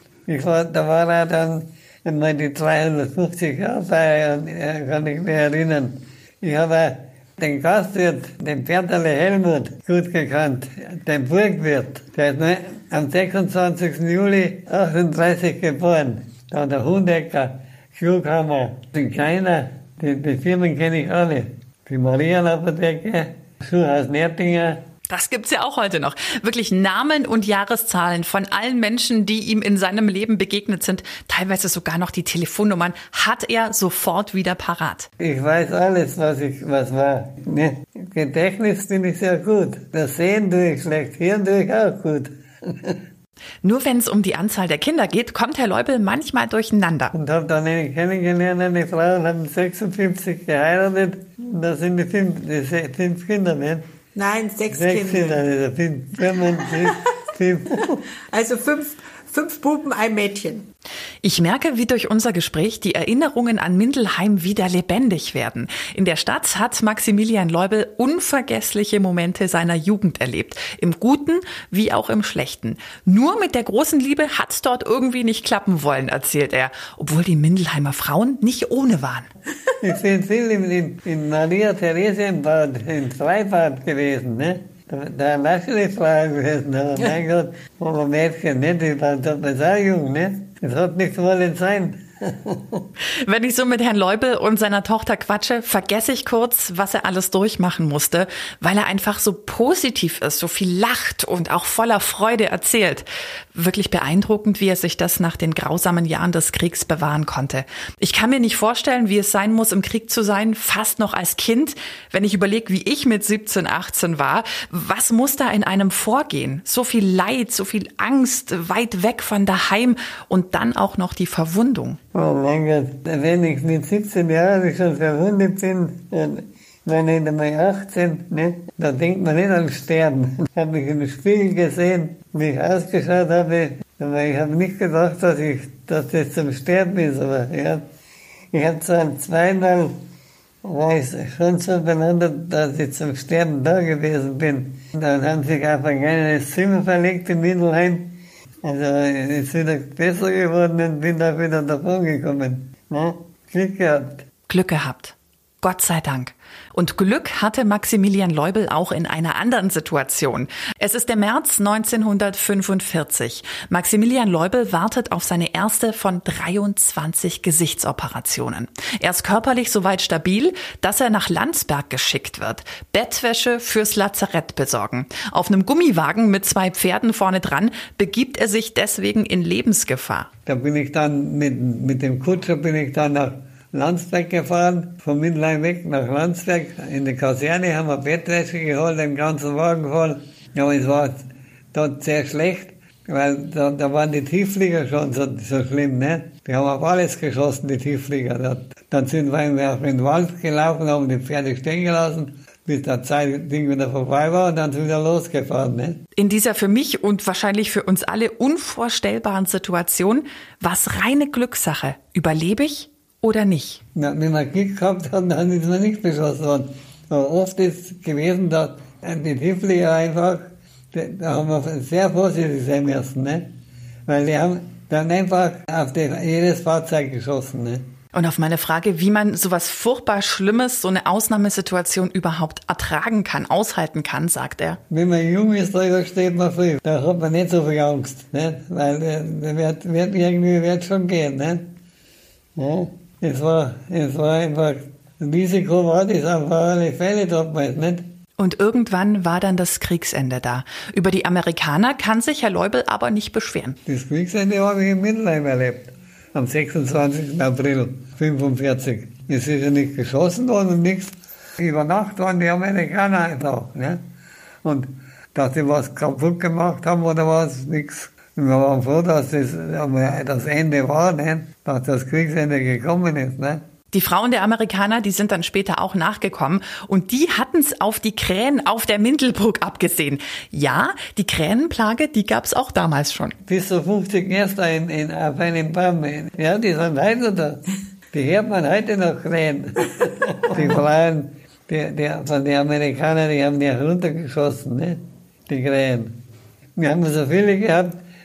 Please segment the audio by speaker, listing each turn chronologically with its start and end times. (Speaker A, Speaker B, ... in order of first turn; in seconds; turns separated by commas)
Speaker A: 0.3-24.8, Speaker B: 25.1-35.1, Speaker A: 35.2-43.0, Speaker B: 43.6-47.1, Speaker A: 47.1-53.8, Speaker C: 54.1-55.4, Speaker A: 54.7-58.0, Speaker C: 56.6-56.9, Speaker C: 58.3-60.6, Speaker B: 61.2-79.3, Speaker A: 79.8-92.8, Speaker B: 93.2-122.0, Speaker A: 122.1-137.8, Speaker A: 138.5-140.0, Speaker A: 140.6-154.2, Speaker B: 154.5-180.3, Speaker A: 180.4-206.0, Speaker B: 206.2-213.8, Speaker A: 213.9-223.5, Speaker A: 224.1-227.8, Speaker B: 228.1-234.8, Speaker A: 234.9-241.7, Speaker A: 242.6-248.1, Speaker B: 248.4-253.8, Speaker A: 253.8-264.0, Speaker A: 264.6-273.6, Speaker B: 273.9-283.3, Speaker A: 283.4-296.2, Speaker A: 296.8-298.0